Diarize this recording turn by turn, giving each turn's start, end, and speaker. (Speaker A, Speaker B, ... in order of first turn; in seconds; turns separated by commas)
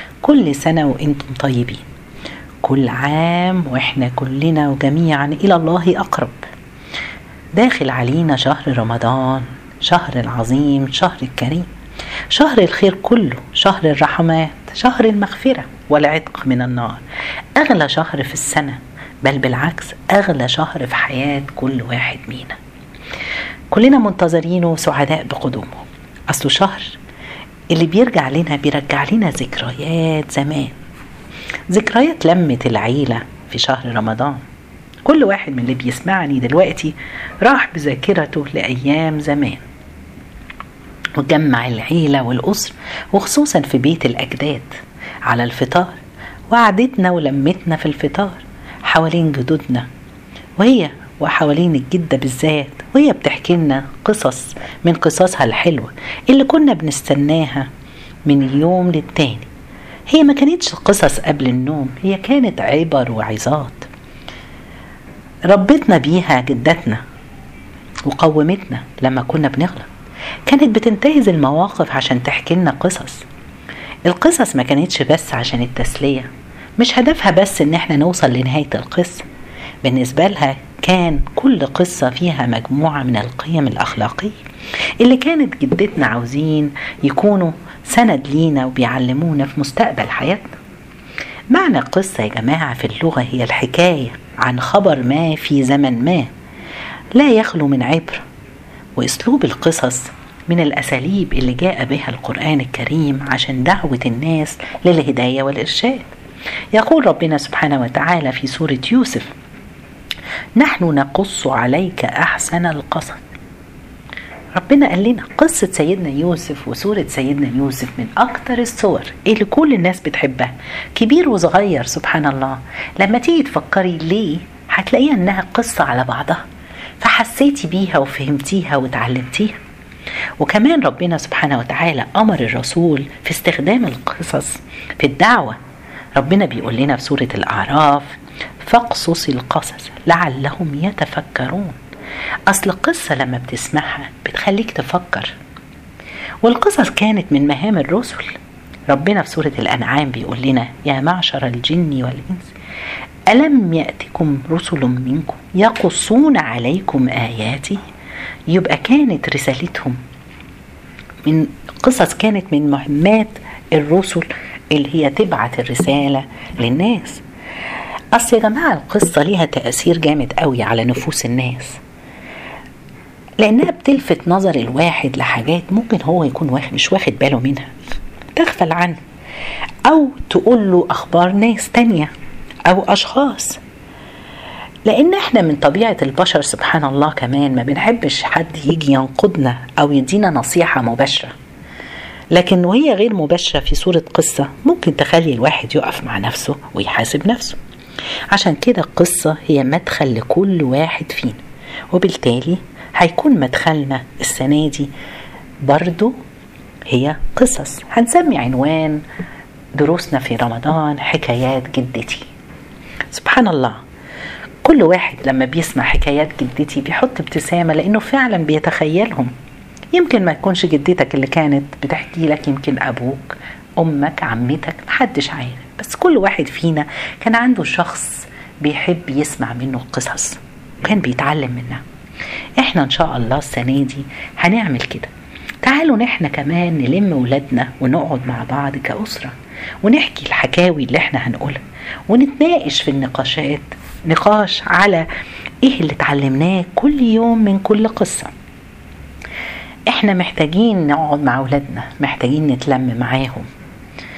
Speaker A: 0.2-1.8, Speaker A: 2.6-6.3, Speaker A: 7.5-11.7, Speaker A: 12.3-17.0, Speaker A: 17.6-22.6, Speaker A: 23.7-27.0, Speaker A: 27.7-30.7, Speaker A: 31.7-34.4, Speaker A: 35.0-39.6, Speaker A: 41.2-44.7, Speaker A: 45.2-46.0, Speaker A: 46.5-49.9, Speaker A: 50.6-57.7, Speaker A: 58.2-59.5, Speaker A: 60.1-63.9, Speaker A: 65.5-67.0, Speaker A: 68.0-69.9, Speaker A: 70.5-73.2, Speaker A: 74.1-79.2, Speaker A: 79.8-84.3, Speaker A: 85.0-90.5, Speaker A: 91.5-96.3, Speaker A: 97.1-98.2, Speaker A: 99.0-106.1, Speaker A: 106.7-109.3, Speaker A: 110.6-113.2, Speaker A: 114.5-126.4, Speaker A: 127.0-129.6, Speaker A: 130.4-135.6, Speaker A: 136.2-141.8, Speaker A: 142.5-145.3, Speaker A: 146.4-148.3, Speaker A: 148.9-152.5, Speaker A: 153.3-157.8, Speaker A: 158.5-160.0, Speaker A: 161.2-167.2, Speaker A: 168.1-171.8, Speaker A: 173.4-177.8, Speaker A: 178.3-179.0, Speaker A: 179.8-182.1, Speaker A: 182.7-183.6, Speaker A: 184.8-191.3, Speaker A: 192.3-197.6, Speaker A: 198.3-201.4, Speaker A: 201.9-204.9, Speaker A: 205.6-206.1, Speaker A: 206.9-209.0, Speaker A: 209.8-212.3, Speaker A: 213.1-213.8, Speaker A: 214.6-219.3, Speaker A: 219.9-231.8, Speaker A: 232.6-235.1, Speaker A: 235.6-245.1, Speaker A: 245.6-248.3, Speaker A: 249.9-253.5